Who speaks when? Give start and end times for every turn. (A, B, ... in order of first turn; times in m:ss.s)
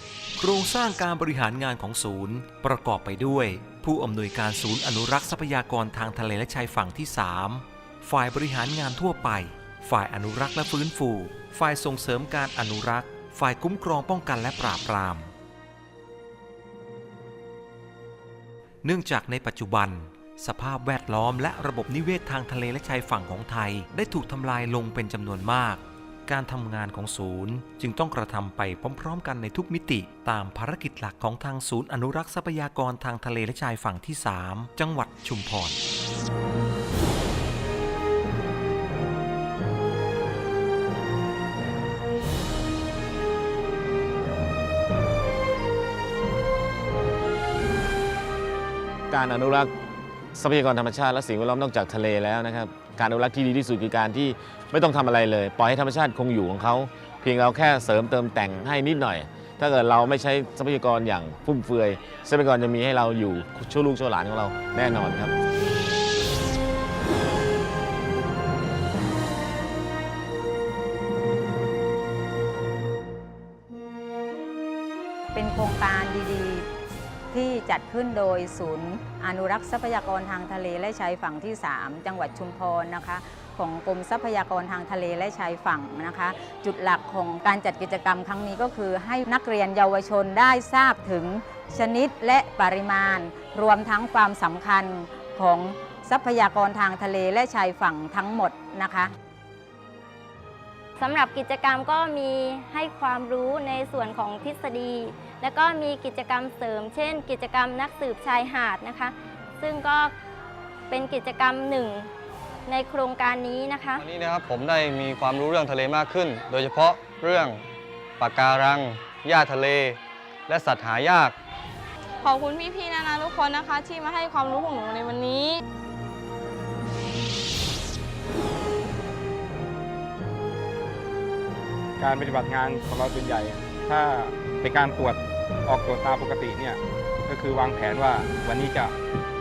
0:00.4-0:15.3 A
0:18.8-0:35.8 A
0:49.1-0:49.7 B
0:50.3-1:05.3 B
1:15.3-1:16.7 C
1:17.3-1:39.1 C
1:41.0-1:50.1 D
1:50.9-1:52.1 D
1:52.7-1:54.0 D
1:54.0-1:57.6 E
1:58.2-2:01.3 E
2:02.2-2:05.6 F
2:12.0-2:18.9 G